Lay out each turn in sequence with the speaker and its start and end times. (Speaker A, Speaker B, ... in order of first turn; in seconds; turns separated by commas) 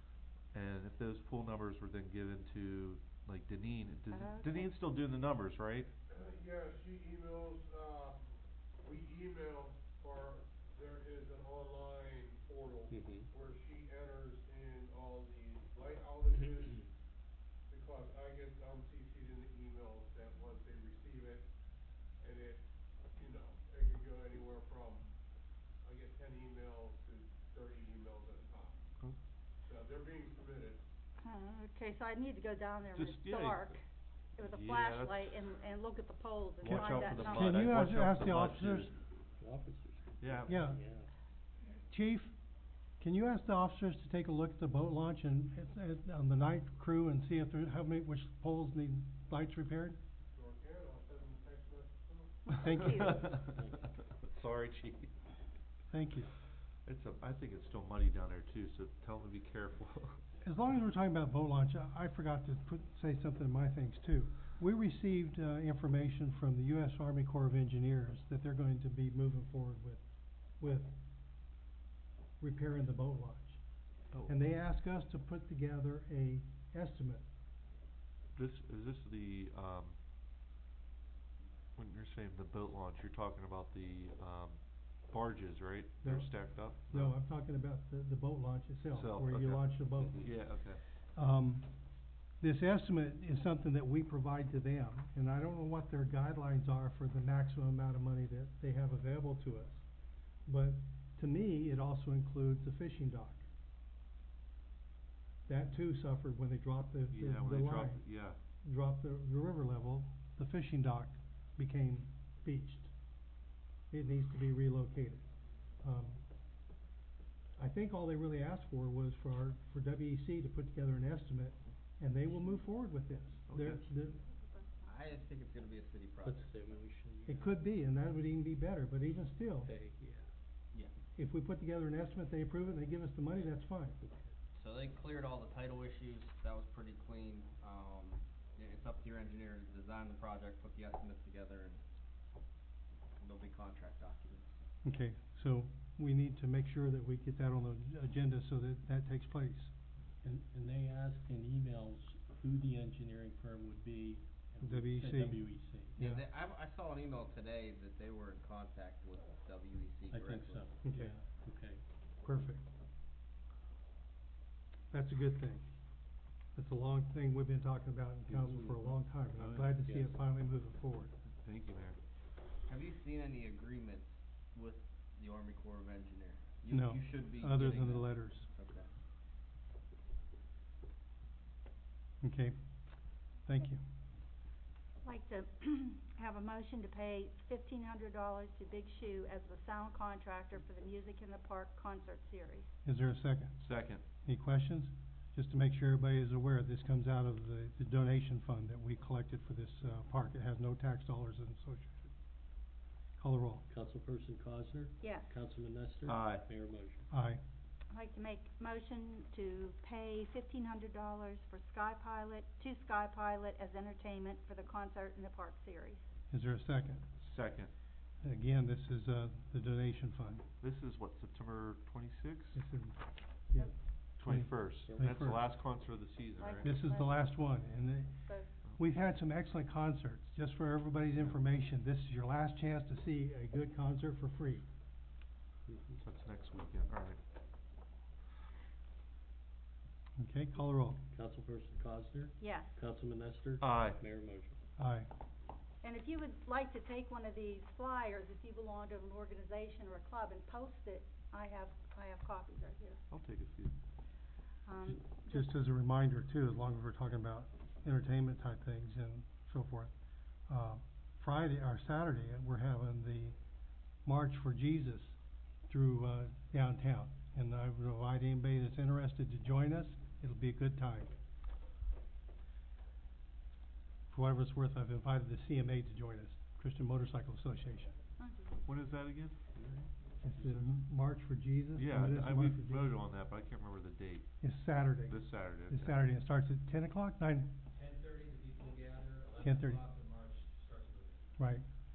Speaker A: 0.5-5.9, Speaker B: 4.1-4.7, Speaker C: 6.1-16.9, Speaker D: 12.9-13.3, Speaker C: 17.7-21.5, Speaker C: 22.2-25.1, Speaker C: 25.8-28.9, Speaker C: 29.6-30.8, Speaker B: 31.2-33.8, Speaker A: 32.9-33.8, Speaker B: 34.4-37.6, Speaker A: 34.4-35.4, Speaker A: 36.6-38.9, Speaker E: 37.2-38.9, Speaker D: 39.4-41.1, Speaker A: 40.2-40.6, Speaker E: 40.5-40.8, Speaker E: 41.9-42.4, Speaker E: 43.0-50.0, Speaker C: 50.3-53.1, Speaker E: 52.6-53.0, Speaker A: 52.9-53.4, Speaker D: 53.3-53.9, Speaker A: 54.3-55.1, Speaker E: 55.9-56.3, Speaker A: 56.8-60.2, Speaker E: 60.4-70.0, Speaker E: 70.5-70.9, Speaker E: 72.4-73.6, Speaker E: 74.2-77.2, Speaker A: 78.3-80.0, Speaker A: 81.8-87.2, Speaker E: 86.0-90.5, Speaker A: 88.9-90.8, Speaker E: 91.1-91.7, Speaker E: 92.4-99.8, Speaker E: 100.5-103.5, Speaker E: 105.5-108.0, Speaker A: 107.1-108.4, Speaker E: 108.6-112.9, Speaker E: 113.9-115.2, Speaker E: 115.8-116.2, Speaker E: 117.6-124.2, Speaker A: 123.5-123.8, Speaker B: 124.1-125.2, Speaker F: 124.8-126.8, Speaker D: 126.2-127.6, Speaker E: 127.2-129.7, Speaker D: 129.6-130.3, Speaker E: 131.2-134.0, Speaker D: 134.0-134.3, Speaker F: 134.5-141.8, Speaker F: 143.2-144.5, Speaker E: 144.8-149.7, Speaker D: 150.2-156.0, Speaker E: 154.6-156.2, Speaker F: 155.9-160.8, Speaker D: 160.1-161.8, Speaker E: 160.8-161.2, Speaker E: 162.2-162.6, Speaker E: 164.9-165.6, Speaker E: 166.5-171.1, Speaker D: 168.3-169.0, Speaker A: 169.4-169.8, Speaker D: 169.7-170.2, Speaker A: 171.4-172.0, Speaker F: 172.7-178.9, Speaker E: 176.7-178.5, Speaker E: 182.2-182.6, Speaker E: 183.4-183.8, Speaker B: 185.0-192.7, Speaker E: 192.8-193.6, Speaker A: 193.6-194.0, Speaker E: 194.2-202.1, Speaker E: 203.2-203.6, Speaker D: 203.7-207.0, Speaker B: 205.0-205.3, Speaker A: 206.1-206.4, Speaker E: 207.1-207.4, Speaker B: 207.9-216.0, Speaker E: 216.3-217.0, Speaker A: 217.2-217.7, Speaker E: 218.2-220.4, Speaker A: 220.6-222.6, Speaker E: 222.5-225.5, Speaker A: 224.2-226.7, Speaker D: 224.9-225.2, Speaker B: 226.4-227.4, Speaker E: 226.6-234.7, Speaker A: 236.0-237.2, Speaker E: 240.2-241.0, Speaker D: 241.1-244.6, Speaker B: 242.4-242.8, Speaker A: 243.6-244.0, Speaker E: 244.8-245.1, Speaker B: 245.8-253.0, Speaker A: 253.1-253.7, Speaker B: 254.6-255.5, Speaker E: 255.3-259.9, Speaker E: 260.5-263.4, Speaker E: 264.0-271.1, Speaker E: 274.1-277.9, Speaker B: 278.2-278.7, Speaker A: 278.6-279.4, Speaker D: 279.5-280.6, Speaker E: 280.2-282.9, Speaker A: 281.8-284.3, Speaker E: 284.4-287.6, Speaker A: 285.1-286.1, Speaker F: 287.7-291.3, Speaker E: 289.4-289.8, Speaker E: 291.4-291.6